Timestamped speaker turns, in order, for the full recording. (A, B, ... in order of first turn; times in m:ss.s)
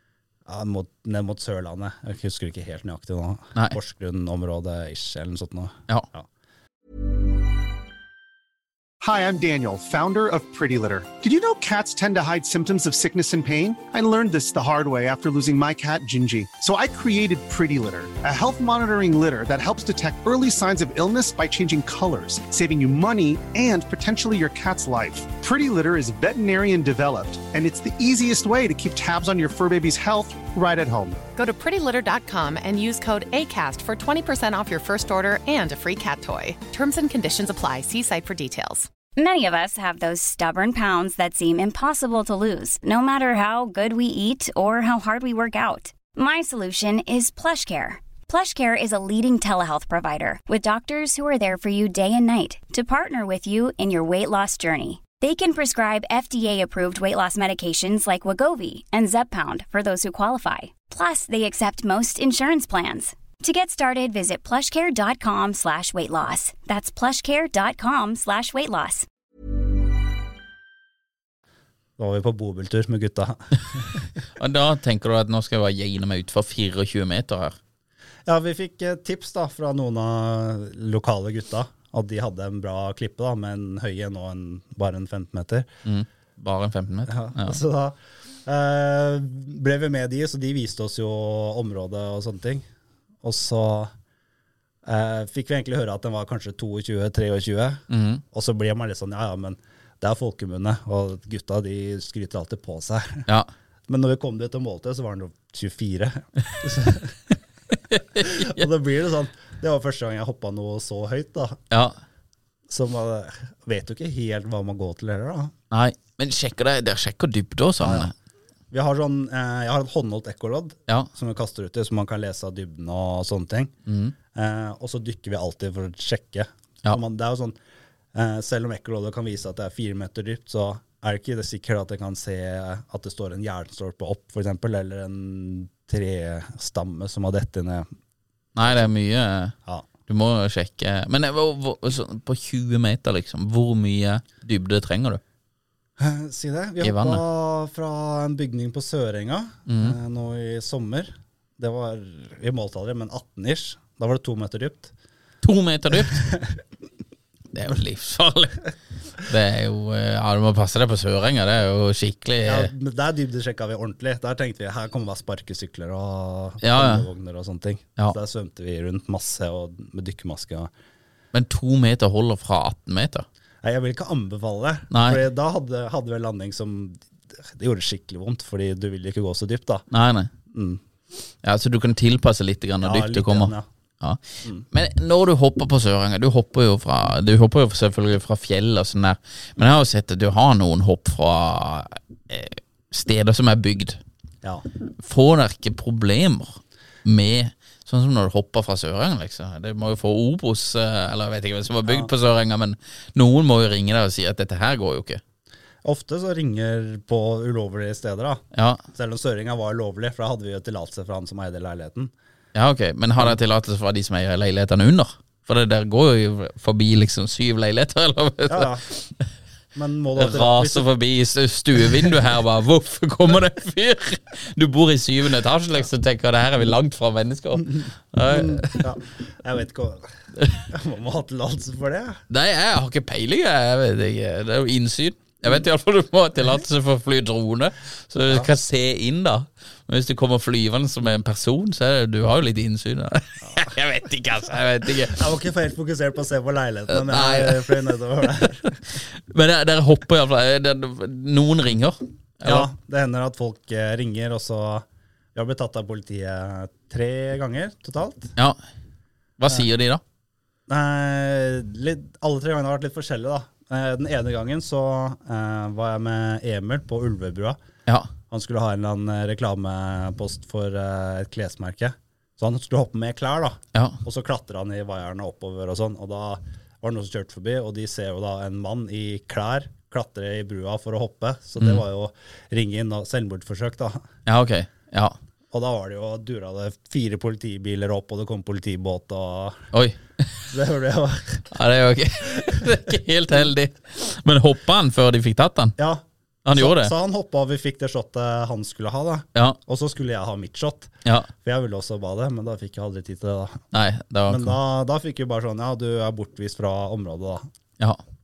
0:00.5-0:06.3 A
0:09.0-0:31.2 B
0:31.4-0:38.9 C
0:39.2-1:09.1 D
1:12.0-1:14.0 A
1:14.4-1:17.6 E
1:18.3-1:25.7 A
1:25.8-1:27.6 E
1:27.1-1:32.6 A
1:33.2-1:33.9 A
1:34.8-1:43.2 A
1:37.9-1:38.2 E
1:43.9-1:47.2 A
1:47.9-1:48.6 E
1:48.2-1:51.6 A
1:51.7-1:52.0 E
1:52.7-1:55.5 A
1:55.7-1:58.1 E
1:57.8-1:58.1 A
1:58.7-2:03.8 A
2:03.9-2:04.1 E
2:04.3-2:07.6 A
2:08.1-2:17.9 A
2:18.6-2:19.6 E
2:20.1-2:25.2 E
2:26.0-2:34.9 A
2:26.8-2:27.2 E
2:29.7-2:30.0 E
2:35.4-2:36.3 E
2:36.1-2:36.4 A
2:37.5-2:42.7 E
2:42.4-2:50.7 A
2:46.6-2:47.1 E
2:51.3-2:53.3 E
2:53.6-2:59.9 A
2:54.9-2:55.2 E
2:59.9-3:00.3 E
3:00.5-3:00.8 A
3:01.4-3:14.0 E
3:02.8-3:03.7 A
3:15.0-3:25.2 E
3:21.9-3:22.1 A
3:25.8-3:32.1 A
3:28.5-3:28.8 E
3:32.6-3:39.1 E
3:38.5-3:38.9 A
3:39.8-3:40.9 A
3:40.2-3:48.9 E
3:48.3-3:52.2 A
3:50.4-3:50.7 E
3:52.3-4:05.2 E
4:05.0-4:08.8 A
4:06.9-4:12.7 E
4:12.4-4:18.4 A
4:19.4-4:20.0 E
4:20.7-4:27.6 A
4:28.3-4:44.1 A
4:33.7-4:34.0 E
4:44.3-4:45.2 E
4:45.5-4:49.7 A
4:49.7-4:50.5 E
4:50.5-4:51.5 A
4:51.5-4:55.8 E
4:55.8-5:03.6 A
4:56.4-4:56.9 E
5:03.7-5:04.6 E
5:04.3-5:07.5 A